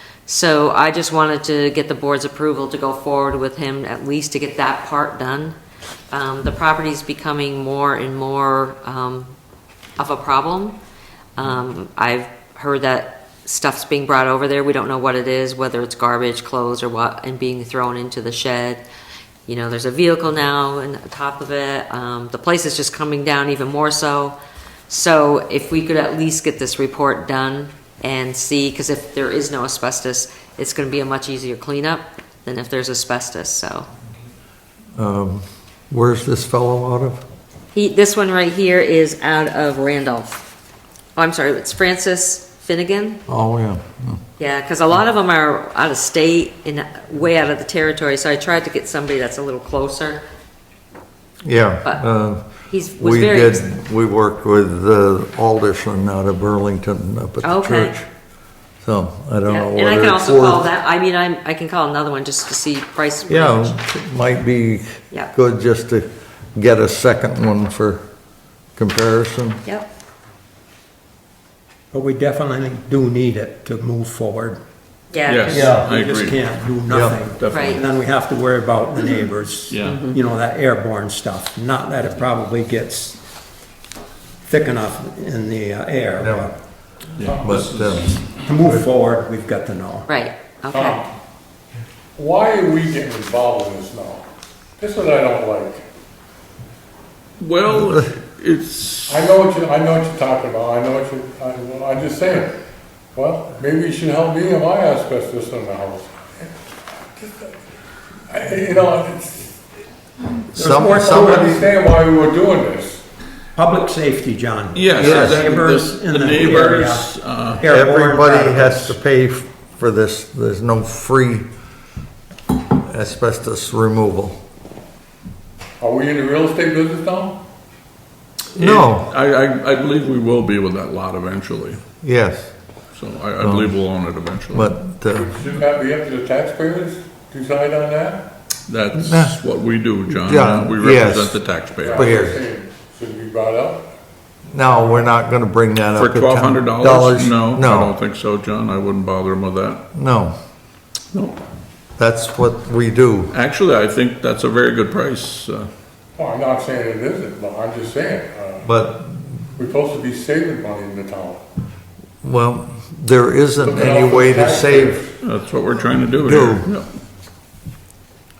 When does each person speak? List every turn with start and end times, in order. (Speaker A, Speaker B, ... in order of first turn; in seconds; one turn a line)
Speaker A: 0.2-5.5
Speaker A: 6.1-9.3
Speaker A: 10.0-10.8
Speaker A: 11.4-18.8
Speaker A: 19.4-24.4
Speaker A: 24.9-33.9
Speaker B: 35.0-37.2
Speaker A: 37.7-40.5
Speaker A: 41.1-43.2
Speaker B: 43.3-44.2
Speaker A: 44.4-50.2
Speaker B: 51.4-58.1
Speaker A: 52.7-53.6
Speaker A: 57.4-58.0
Speaker B: 58.8-60.7
Speaker A: 59.5-63.8
Speaker B: 63.2-68.0
Speaker B: 68.8-69.6
Speaker C: 71.9-74.6
Speaker A: 75.1-75.8
Speaker D: 75.2-77.9
Speaker C: 75.5-83.2
Speaker B: 75.5-75.9
Speaker B: 76.9-77.2
Speaker A: 77.5-77.8
Speaker D: 79.7-80.1
Speaker C: 84.4-86.5
Speaker B: 86.2-86.5
Speaker D: 87.2-88.2
Speaker E: 87.2-87.6
Speaker B: 87.4-88.8
Speaker C: 88.3-90.1
Speaker A: 90.1-91.0
Speaker E: 90.7-91.1
Speaker E: 92.2-94.2
Speaker E: 94.8-95.8
Speaker D: 97.4-99.3
Speaker E: 99.1-102.5
Speaker E: 103.1-106.5
Speaker E: 107.2-107.5
Speaker E: 108.3-109.6
Speaker B: 110.5-111.5
Speaker C: 110.5-111.7
Speaker E: 110.6-113.0
Speaker C: 113.5-119.0
Speaker D: 114.7-117.7
Speaker B: 114.9-115.5
Speaker B: 117.6-121.5
Speaker B: 122.7-124.4
Speaker E: 125.8-127.4
Speaker D: 128.5-131.8
Speaker B: 128.6-129.1
Speaker B: 132.0-132.5
Speaker D: 132.9-134.7
Speaker B: 133.4-133.8
Speaker B: 134.5-135.4
Speaker E: 135.1-138.2
Speaker D: 138.7-142.1
Speaker B: 139.0-139.3
Speaker B: 140.1-142.4
Speaker E: 141.8-143.8
Speaker B: 144.5-147.9
Speaker D: 145.9-149.8
Speaker B: 149.9-150.3
Speaker D: 151.1-151.4
Speaker B: 152.0-153.3
Speaker D: 153.3-155.7
Speaker E: 156.2-158.7
Speaker B: 158.6-159.3
Speaker E: 159.6-161.4
Speaker B: 162.2-165.0
Speaker E: 163.6-165.1
Speaker D: 165.2-166.9
Speaker B: 166.2-166.7